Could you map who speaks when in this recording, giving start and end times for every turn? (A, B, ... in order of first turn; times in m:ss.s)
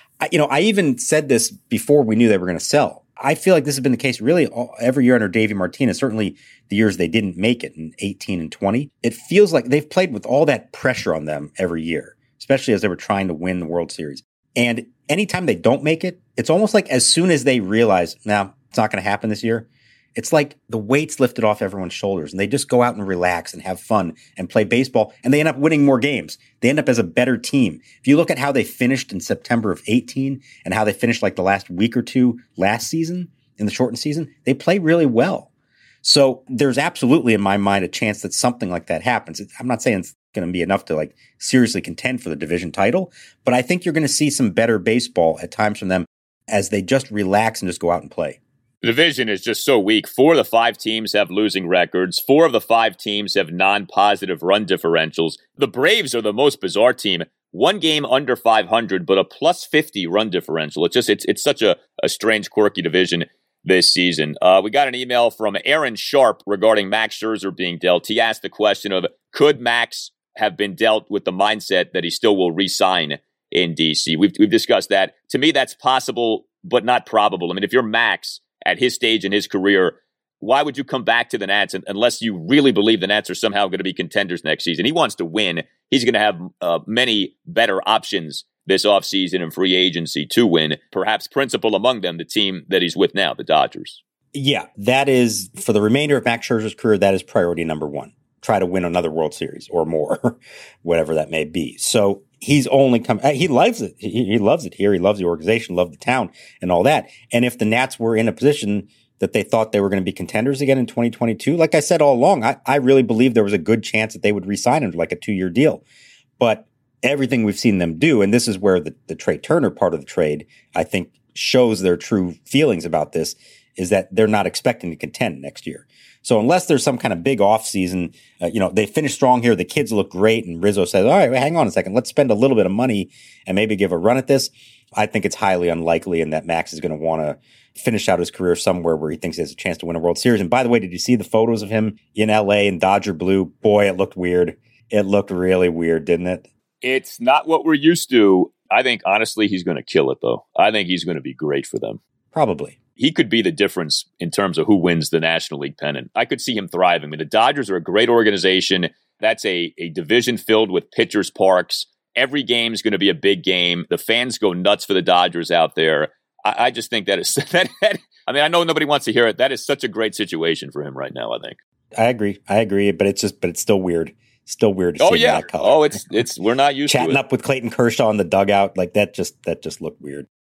0:00.2-0:35.5 A
0:36.0-0:48.4 A
0:48.8-1:34.0 B
1:34.3-1:55.8 A
1:56.4-2:26.5 A
2:26.8-2:32.0 B
2:32.3-2:32.8 A
2:33.0-2:51.6 B
2:52.0-2:56.0 A
2:55.0-2:57.2 B
2:56.9-3:00.3 A